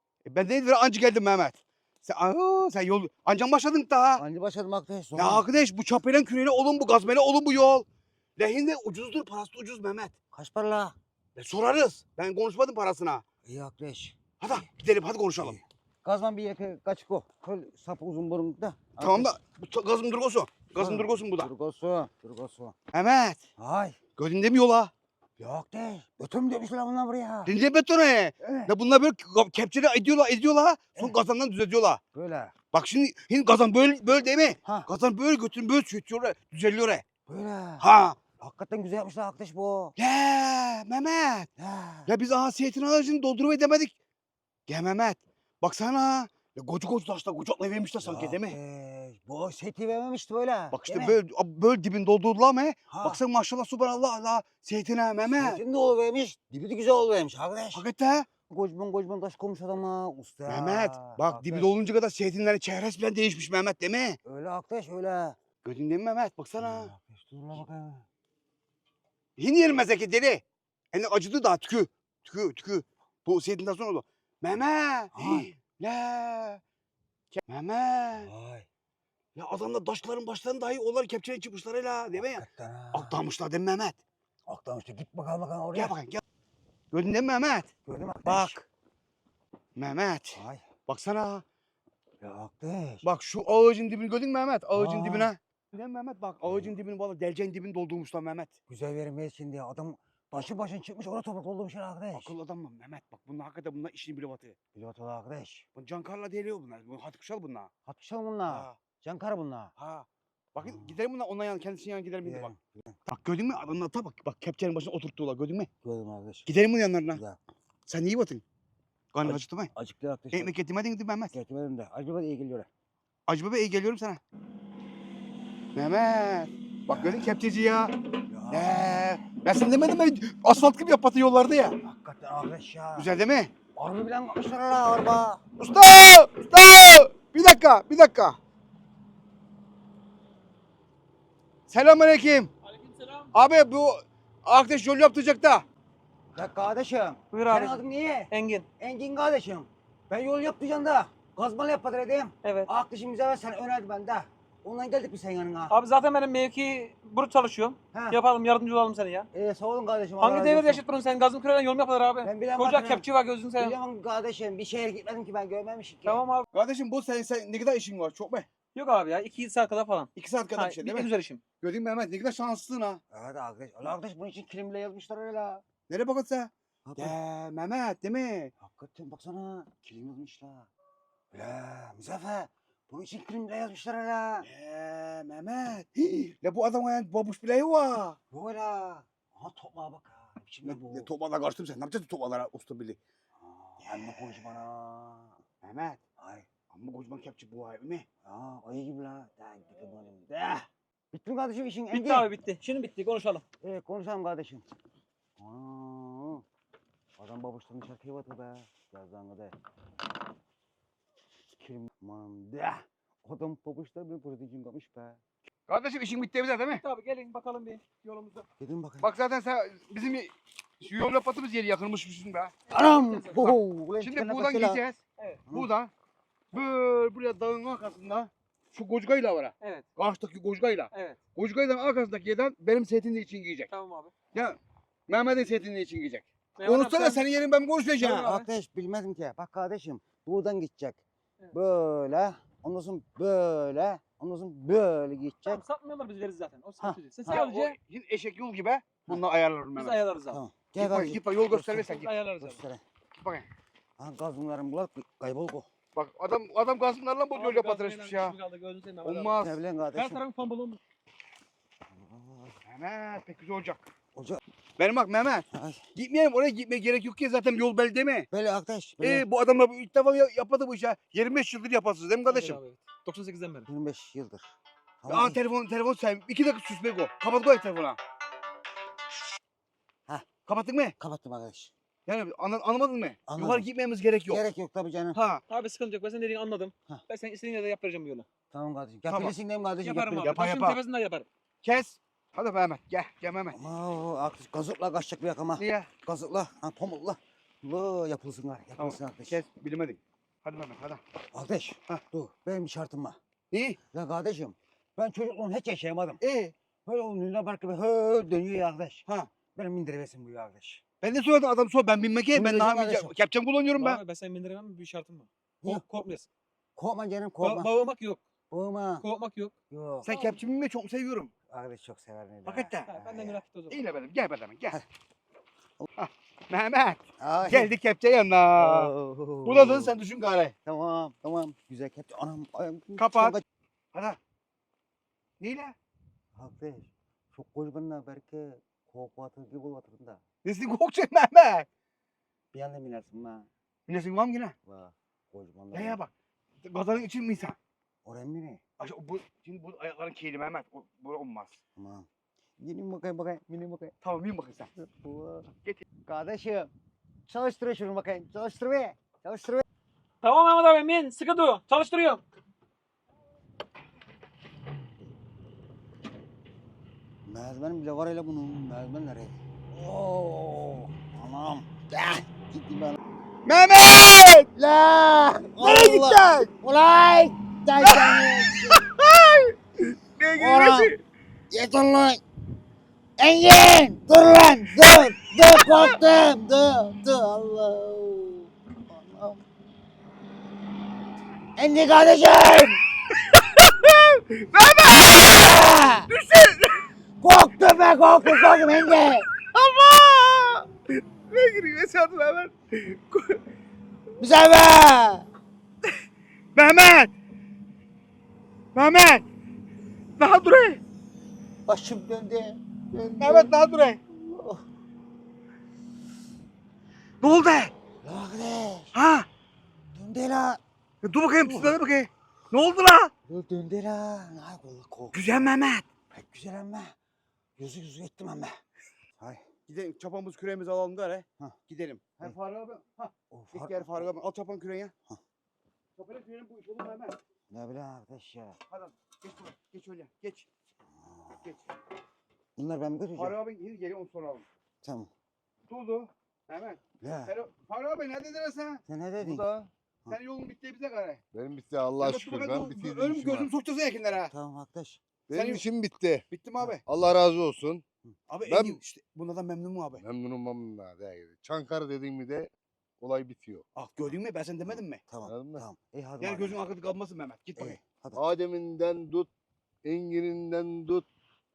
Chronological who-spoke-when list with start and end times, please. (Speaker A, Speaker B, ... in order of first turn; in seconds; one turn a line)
Speaker A: 0.3-4.2
Speaker B: 4.2-5.4
Speaker A: 5.2-7.8
Speaker A: 8.4-10.1
Speaker B: 10.3-10.9
Speaker A: 11.3-13.2
Speaker B: 13.5-14.7
Speaker A: 14.4-15.6
Speaker B: 15.4-19.3
Speaker A: 19.0-21.5
Speaker B: 20.8-22.7
Speaker A: 22.9-23.4
Speaker B: 23.6-24.0
Speaker A: 24.2-24.9
Speaker B: 25.4-27.5
Speaker A: 27.4-32.0
Speaker B: 28.4-28.7
Speaker B: 32.1-32.5
Speaker A: 32.7-37.0
Speaker B: 37.3-37.8
Speaker A: 37.8-38.2
Speaker B: 38.4-39.9
Speaker A: 40.0-41.5
Speaker B: 41.6-42.1
Speaker A: 42.1-43.9
Speaker A: 44.7-48.6
Speaker B: 48.0-51.1
Speaker A: 50.7-55.6
Speaker B: 52.9-53.2
Speaker B: 55.3-57.8
Speaker A: 57.7-58.3
Speaker B: 58.5-61.7
Speaker A: 60.5-64.2
Speaker B: 64.2-65.4
Speaker A: 65.6-66.9
Speaker B: 66.6-68.0
Speaker A: 69.4-76.6
Speaker B: 75.1-75.5
Speaker A: 77.3-78.3
Speaker B: 78.2-78.7
Speaker A: 79.3-84.0
Speaker B: 82.2-83.2
Speaker B: 84.5-86.0
Speaker A: 85.7-86.2
Speaker A: 86.9-87.7
Speaker B: 87.8-88.6
Speaker A: 88.2-88.6
Speaker A: 89.8-91.4
Speaker B: 90.3-90.6
Speaker B: 92.2-93.0
Speaker A: 93.0-98.5
Speaker B: 94.7-95.3
Speaker B: 98.7-102.3
Speaker A: 102.1-104.5
Speaker B: 104.7-105.7
Speaker A: 105.8-107.7
Speaker B: 107.8-109.7
Speaker A: 108.5-108.8
Speaker A: 109.8-112.5
Speaker B: 110.6-110.9
Speaker B: 112.2-113.0
Speaker A: 113.1-115.7
Speaker B: 115.8-116.5
Speaker A: 116.5-117.2
Speaker B: 117.1-117.4
Speaker A: 117.9-118.4
Speaker A: 119.1-119.7
Speaker B: 119.2-120.5
Speaker A: 120.3-121.3
Speaker B: 121.3-122.7
Speaker A: 123.3-124.2
Speaker A: 125.7-127.9
Speaker B: 126.9-127.3
Speaker B: 128.3-129.1
Speaker A: 128.5-131.8
Speaker B: 131.8-133.1
Speaker A: 132.9-133.5
Speaker B: 133.8-135.4
Speaker A: 135.6-138.4
Speaker A: 141.7-142.5
Speaker C: 142.7-143.3
Speaker A: 143.3-145.6
Speaker B: 146.3-155.8
Speaker C: 147.3-148.7
Speaker C: 152.4-152.7
Speaker C: 155.7-159.3
Speaker B: 157.9-158.2
Speaker B: 159.3-160.8
Speaker C: 160.2-163.8
Speaker B: 162.2-163.0
Speaker B: 163.6-166.2
Speaker C: 166.0-166.4
Speaker A: 166.5-168.5
Speaker C: 168.7-171.4
Speaker A: 170.2-173.0
Speaker B: 173.1-175.6
Speaker A: 175.9-178.5
Speaker B: 176.9-177.2
Speaker B: 178.6-180.7
Speaker B: 181.3-184.5
Speaker A: 184.4-188.2
Speaker B: 188.3-191.1
Speaker A: 190.6-193.0
Speaker B: 193.4-195.4
Speaker A: 193.8-194.4
Speaker A: 195.6-196.0
Speaker B: 196.2-196.5
Speaker A: 196.7-198.1
Speaker B: 198.2-202.2
Speaker C: 201.9-203.4
Speaker B: 203.6-204.7
Speaker B: 205.4-206.4
Speaker B: 207.2-209.5
Speaker B: 211.6-215.2
Speaker A: 215.7-216.8
Speaker C: 216.8-218.4
Speaker B: 218.6-219.1
Speaker A: 219.0-222.5
Speaker C: 222.7-223.5
Speaker B: 222.7-224.8
Speaker A: 223.3-225.0
Speaker A: 225.5-225.9
Speaker A: 226.5-233.7
Speaker C: 229.6-229.8
Speaker C: 230.9-231.2
Speaker C: 233.7-234.1
Speaker A: 234.3-238.3
Speaker C: 236.6-237.2
Speaker C: 238.0-238.5
Speaker B: 238.1-241.0
Speaker B: 241.5-245.6
Speaker C: 245.4-247.8
Speaker B: 246.8-247.4
Speaker A: 247.3-250.0
Speaker C: 249.7-250.4
Speaker B: 250.3-252.8
Speaker A: 250.8-252.1
Speaker C: 251.6-252.6
Speaker A: 253.2-253.5
Speaker B: 254.0-255.7
Speaker A: 255.9-258.4
Speaker C: 257.3-259.4
Speaker A: 259.0-259.6
Speaker B: 259.4-260.2
Speaker C: 259.9-260.8
Speaker B: 261.9-262.5
Speaker A: 262.6-263.8
Speaker B: 264.1-264.4
Speaker A: 264.8-268.3
Speaker B: 265.5-265.9
Speaker B: 268.3-269.2
Speaker A: 269.0-272.6
Speaker C: 272.3-273.7
Speaker B: 273.7-274.5
Speaker B: 275.0-275.4
Speaker A: 275.1-278.0
Speaker A: 280.4-280.9
Speaker B: 281.0-281.7
Speaker A: 282.1-284.4
Speaker B: 283.3-283.7
Speaker B: 284.3-285.2
Speaker A: 285.1-285.4
Speaker C: 285.5-288.2
Speaker B: 288.5-290.3
Speaker A: 289.1-289.3
Speaker C: 289.8-291.3
Speaker A: 290.2-290.8
Speaker A: 291.6-293.6
Speaker B: 293.5-299.4
Speaker A: 295.6-295.9
Speaker A: 298.8-301.0
Speaker B: 301.3-303.2
Speaker A: 303.5-303.8
Speaker B: 303.9-306.2
Speaker A: 306.2-306.5
Speaker B: 306.9-310.8
Speaker A: 311.0-314.0
Speaker B: 312.3-313.1
Speaker C: 313.8-316.3
Speaker B: 316.8-317.7
Speaker C: 317.4-318.2
Speaker B: 318.5-319.1
Speaker C: 319.0-319.5
Speaker B: 319.7-320.1
Speaker A: 320.0-321.3
Speaker B: 321.5-323.4
Speaker A: 322.4-322.9
Speaker C: 322.8-323.8
Speaker A: 323.7-324.8
Speaker A: 326.0-328.9
Speaker B: 327.2-327.7
Speaker B: 328.6-329.9
Speaker A: 329.4-330.5
Speaker B: 330.6-333.4
Speaker A: 333.0-333.4
Speaker A: 333.9-334.2
Speaker A: 335.4-335.7
Speaker B: 336.4-340.2
Speaker A: 340.4-341.7
Speaker B: 342.5-343.5
Speaker A: 343.9-344.5
Speaker B: 344.6-346.0
Speaker A: 345.7-346.1
Speaker A: 346.6-347.6
Speaker B: 348.0-348.6
Speaker A: 348.8-351.6
Speaker B: 351.8-352.1
Speaker B: 352.6-353.9
Speaker A: 354.0-354.7
Speaker B: 354.8-355.5
Speaker B: 356.1-356.7
Speaker B: 357.3-359.6
Speaker C: 360.2-362.2
Speaker B: 367.2-373.0
Speaker A: 373.4-374.5
Speaker B: 374.5-378.8
Speaker A: 375.6-376.5
Speaker A: 377.8-379.6
Speaker A: 380.1-381.0
Speaker B: 380.3-380.9
Speaker B: 381.5-382.2
Speaker B: 383.2-389.4
Speaker A: 385.5-386.0
Speaker B: 391.6-392.8
Speaker A: 393.1-396.8
Speaker B: 395.1-396.1
Speaker B: 397.2-399.2
Speaker A: 398.2-400.7
Speaker A: 401.3-403.4
Speaker B: 404.2-405.2
Speaker A: 406.5-407.1
Speaker A: 408.7-409.2
Speaker A: 410.2-410.8
Speaker B: 411.7-413.5
Speaker A: 413.2-414.0
Speaker B: 414.1-414.6
Speaker A: 417.2-417.7
Speaker B: 418.0-418.9
Speaker A: 418.9-419.3
Speaker B: 419.9-420.6
Speaker A: 421.0-423.1
Speaker B: 421.4-421.8
Speaker B: 423.3-425.2
Speaker A: 425.1-425.9
Speaker B: 426.1-426.9
Speaker B: 427.6-428.6
Speaker B: 429.2-429.4
Speaker A: 429.7-434.9
Speaker B: 433.3-434.1
Speaker A: 436.0-437.1
Speaker B: 437.5-438.6
Speaker A: 438.7-440.5
Speaker B: 441.0-441.5
Speaker B: 442.6-443.4
Speaker A: 443.1-444.4
Speaker B: 444.8-445.1
Speaker A: 445.7-448.8
Speaker B: 447.0-447.3
Speaker B: 448.9-449.4
Speaker D: 449.2-449.7
Speaker A: 450.1-451.2
Speaker D: 451.3-453.5
Speaker A: 452.0-454.3
Speaker B: 454.3-455.0
Speaker D: 455.3-456.2
Speaker A: 455.3-455.6
Speaker A: 456.3-456.8
Speaker D: 456.8-457.8
Speaker A: 458.3-460.0
Speaker D: 458.4-458.8
Speaker D: 460.0-463.6
Speaker A: 463.7-465.0
Speaker B: 464.6-466.6
Speaker D: 465.2-465.6
Speaker A: 466.2-467.8
Speaker B: 467.6-468.2
Speaker D: 468.1-469.3
Speaker D: 469.8-471.1